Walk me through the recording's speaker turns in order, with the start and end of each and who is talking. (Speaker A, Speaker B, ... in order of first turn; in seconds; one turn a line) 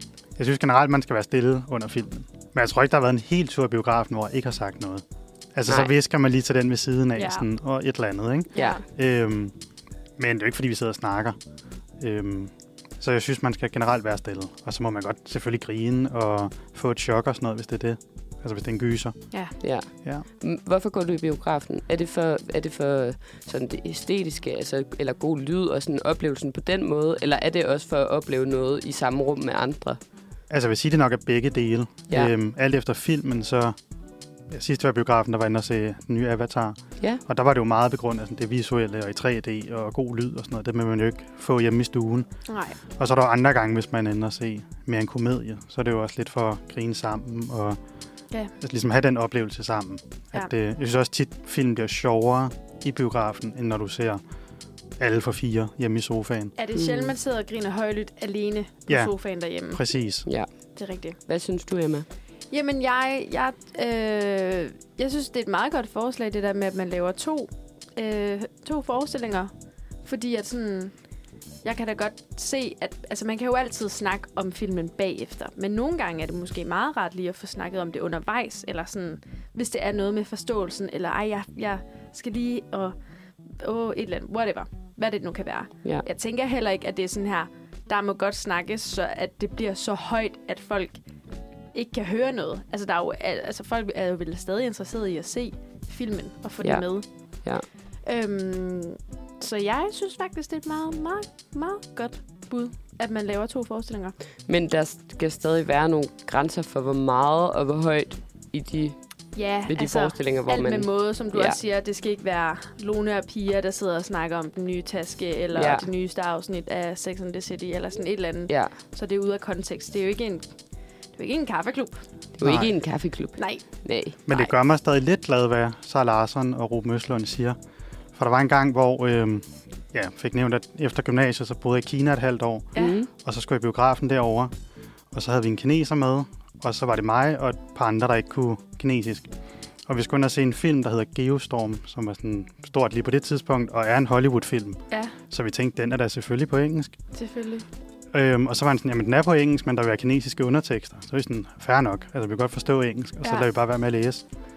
Speaker A: 0.4-5.0
Speaker A: 5.5-9.5
Speaker B: 7.2-7.4
Speaker B: 8.5-8.8
Speaker A: 10.2-11.4
Speaker A: 12.0-19.1
Speaker C: 19.6-30.0
Speaker A: 30.5-33.8
Speaker A: 34.5-42.3
Speaker B: 42.5-42.8
Speaker A: 43.0-47.8
Speaker A: 48.6-54.2
Speaker A: 55.0-56.5
Speaker B: 56.6-59.9
Speaker C: 56.8-57.1
Speaker A: 59.7-60.3
Speaker B: 60.8-61.2
Speaker C: 61.3-62.1
Speaker B: 62.5-69.5
Speaker B: 70.0-70.9
Speaker B: 71.6-83.0
Speaker B: 83.6-91.0
Speaker B: 91.7-97.0
Speaker B: 98.0-104.1
Speaker C: 104.5-109.0
Speaker B: 109.3-120.4
Speaker C: 109.7-111.6
Speaker C: 115.5-115.9
Speaker C: 118.5-118.7
Speaker B: 121.2-122.0
Speaker C: 122.4-124.2
Speaker A: 122.4-122.7
Speaker B: 123.4-123.6
Speaker A: 124.3-127.6
Speaker A: 128.1-134.5
Speaker C: 132.8-133.1
Speaker A: 135.1-139.3
Speaker A: 139.9-144.8
Speaker A: 145.3-146.9
Speaker B: 147.1-147.7
Speaker A: 148.1-154.2